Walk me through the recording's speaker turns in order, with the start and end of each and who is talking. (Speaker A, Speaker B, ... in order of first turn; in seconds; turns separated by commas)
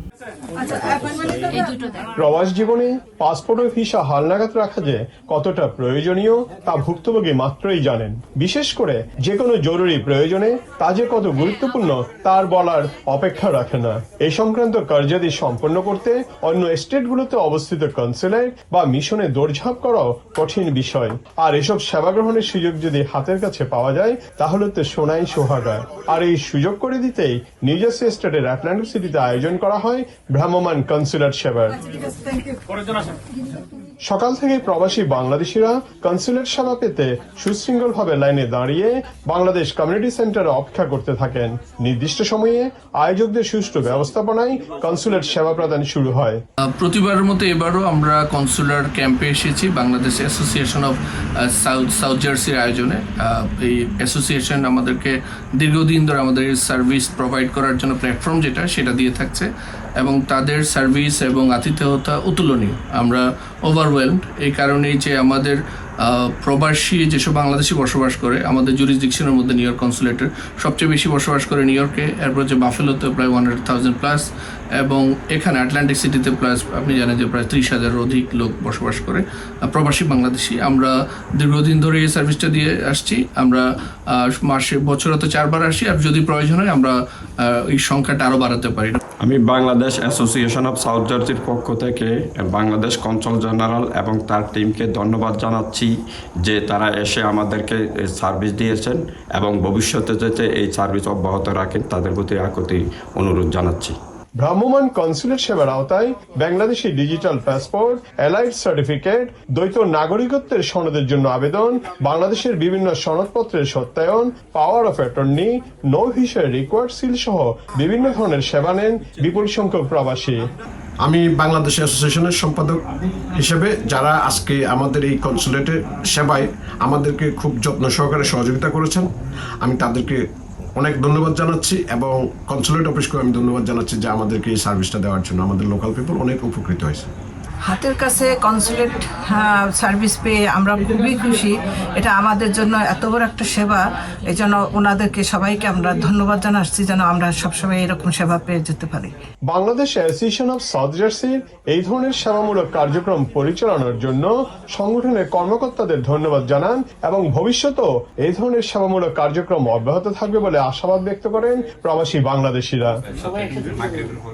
Speaker A: 2.2-31.8, Speaker A: 34.0-46.4, Speaker B: 46.8-59.5, Speaker B: 60.0-74.2, Speaker B: 74.8-86.9, Speaker B: 87.5-89.0, Speaker C: 89.2-104.0, Speaker A: 104.4-120.4, Speaker D: 121.0-122.8, Speaker D: 123.3-129.1, Speaker D: 129.6-130.2, Speaker D: 130.8-137.1, Speaker E: 137.7-149.1, Speaker A: 149.5-163.0